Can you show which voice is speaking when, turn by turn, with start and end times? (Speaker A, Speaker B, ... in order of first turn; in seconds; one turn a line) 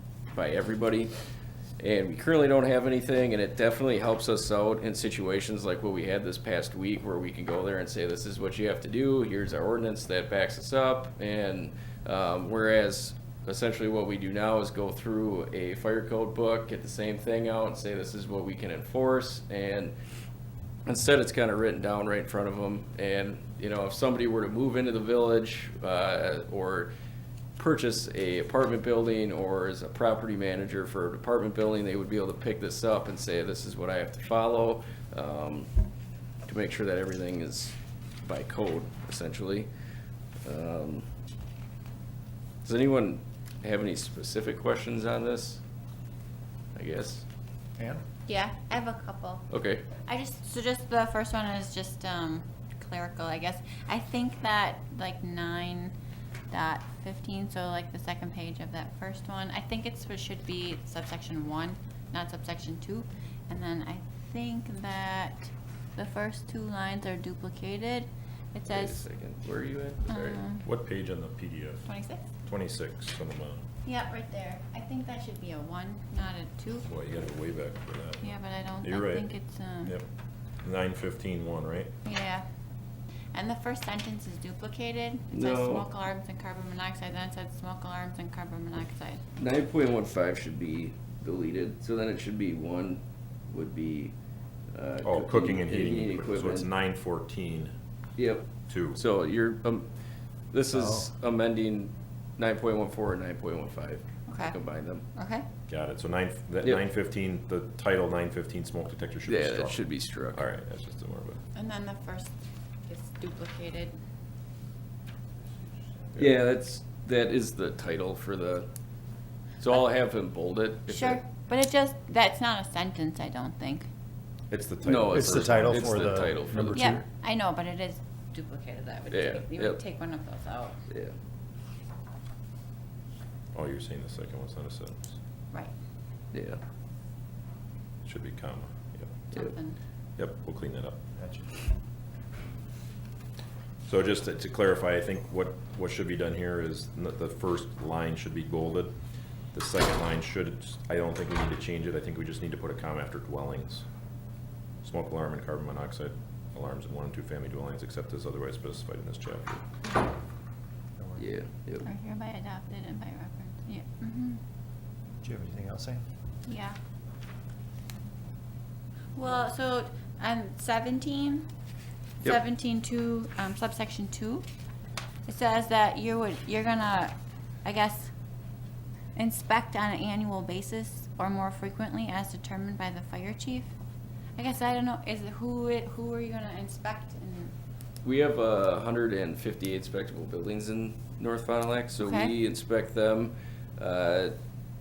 Speaker A: 0.3-1.1
Speaker A: 1.8-19.9
Speaker A: 20.9-26.9
Speaker A: 27.6-35.7
Speaker A: 36.5-39.7
Speaker A: 40.4-41.1
Speaker A: 42.6-45.6
Speaker A: 46.8-47.2
Speaker B: 47.8-48.0
Speaker C: 48.3-49.5
Speaker A: 49.5-49.9
Speaker C: 50.0-55.9
Speaker C: 56.5-69.0
Speaker A: 68.7-70.4
Speaker C: 70.1-70.7
Speaker D: 70.6-71.9
Speaker C: 71.9-72.2
Speaker D: 72.4-73.6
Speaker C: 73.9-76.9
Speaker D: 76.8-79.3
Speaker C: 78.2-80.0
Speaker D: 80.6-81.9
Speaker C: 82.0-82.4
Speaker C: 83.3-89.2
Speaker A: 85.3-85.9
Speaker A: 89.4-94.1
Speaker A: 94.7-96.7
Speaker D: 95.0-97.7
Speaker A: 98.2-99.9
Speaker D: 98.7-99.0
Speaker A: 100.5-105.0
Speaker B: 100.7-101.1
Speaker C: 104.3-104.6
Speaker C: 105.2-105.5
Speaker D: 105.7-111.4
Speaker A: 109.3-110.4
Speaker C: 111.5-112.3
Speaker C: 112.9-113.9
Speaker A: 116.2-118.7
Speaker A: 119.6-121.2
Speaker C: 120.9-123.9
Speaker D: 124.5-126.2
Speaker A: 124.8-127.0
Speaker B: 125.1-127.0
Speaker C: 126.7-130.8
Speaker A: 129.1-129.8
Speaker A: 130.9-131.1
Speaker D: 133.5-135.2
Speaker A: 136.3-136.6
Speaker D: 138.0-139.3
Speaker C: 139.3-139.8
Speaker D: 140.2-141.0
Speaker B: 141.2-141.5
Speaker D: 143.9-148.9
Speaker D: 149.5-153.8
Speaker D: 154.8-159.6
Speaker B: 161.0-161.2
Speaker A: 161.2-161.9
Speaker C: 161.8-164.4
Speaker B: 165.2-166.1
Speaker C: 166.5-166.8
Speaker C: 169.2-171.5
Speaker C: 172.2-174.4
Speaker C: 175.3-178.1
Speaker C: 179.2-183.7
Speaker C: 184.4-187.5
Speaker A: 188.0-194.4
Speaker C: 192.0-192.3